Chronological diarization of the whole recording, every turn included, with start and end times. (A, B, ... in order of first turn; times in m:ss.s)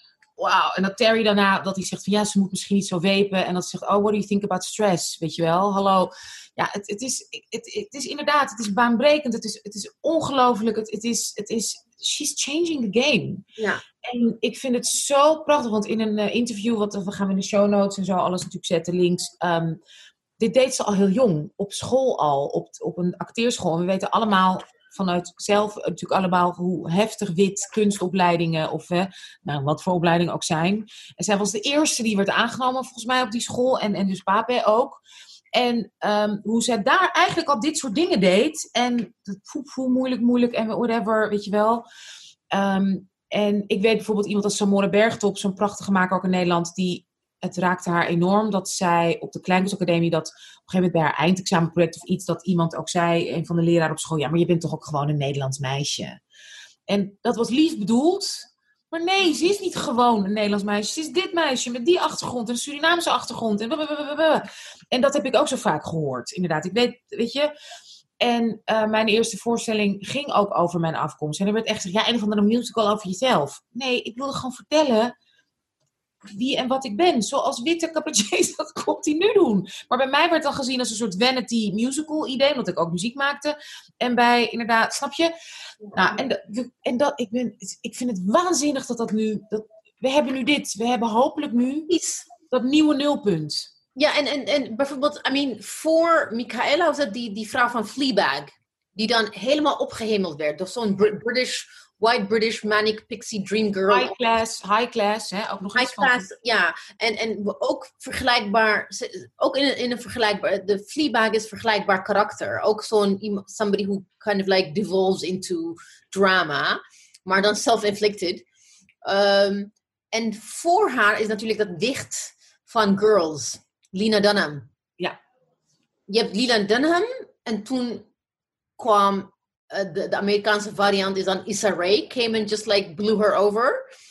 0:00.4-0:13.4 A
0:13.6-0:13.8 B
0:14.0-0:19.8 A
0:20.4-0:35.0 A
0:35.5-0:41.8 A
0:42.5-0:56.2 A
0:56.9-1:07.5 A
1:08.2-1:15.1 A
1:16.3-1:25.3 A
1:25.9-1:31.9 A
1:31.9-1:32.3 B
1:32.5-1:33.7 A
1:34.0-1:44.1 B
1:43.9-1:46.3 A
1:45.7-1:58.4 B
1:59.0-2:04.7 B
2:06.1-2:08.0 B
2:08.8-2:13.8 B